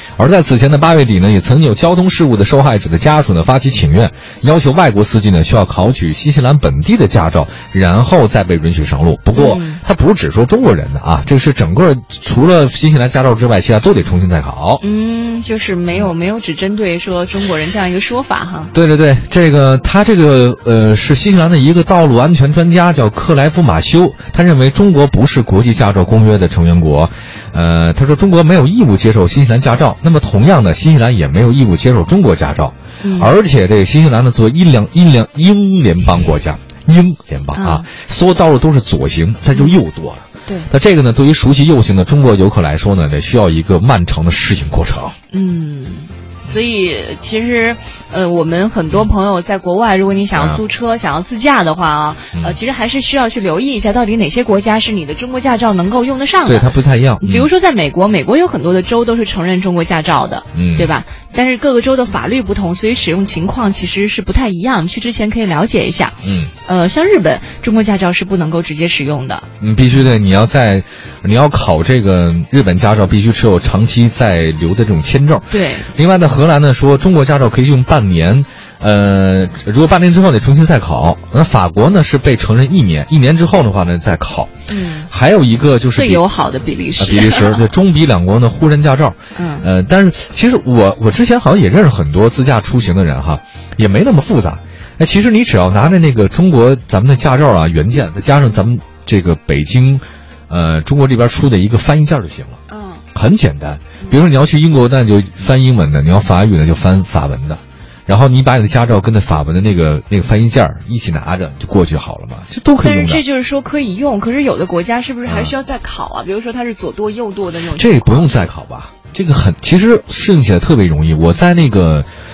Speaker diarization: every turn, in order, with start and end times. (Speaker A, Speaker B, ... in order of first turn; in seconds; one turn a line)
Speaker A: 0.2-14.8
Speaker B: 9.3-9.8
Speaker B: 14.8-18.7
Speaker A: 18.7-45.1
Speaker B: 33.0-33.3
Speaker B: 37.5-37.9
Speaker B: 40.5-40.7
Speaker B: 45.3-69.5
Speaker A: 50.4-50.6
Speaker A: 56.5-57.5
Speaker A: 60.5-60.9
Speaker A: 66.2-66.5
Speaker A: 69.6-84.5
Speaker B: 75.5-75.9
Speaker B: 84.7-85.1
Speaker A: 85.1-86.2
Speaker B: 86.0-87.7
Speaker A: 87.0-102.6
Speaker B: 89.3-89.7
Speaker B: 102.7-103.0
Speaker A: 103.1-113.2
Speaker B: 112.8-118.5
Speaker A: 115.3-115.5
Speaker A: 117.8-122.1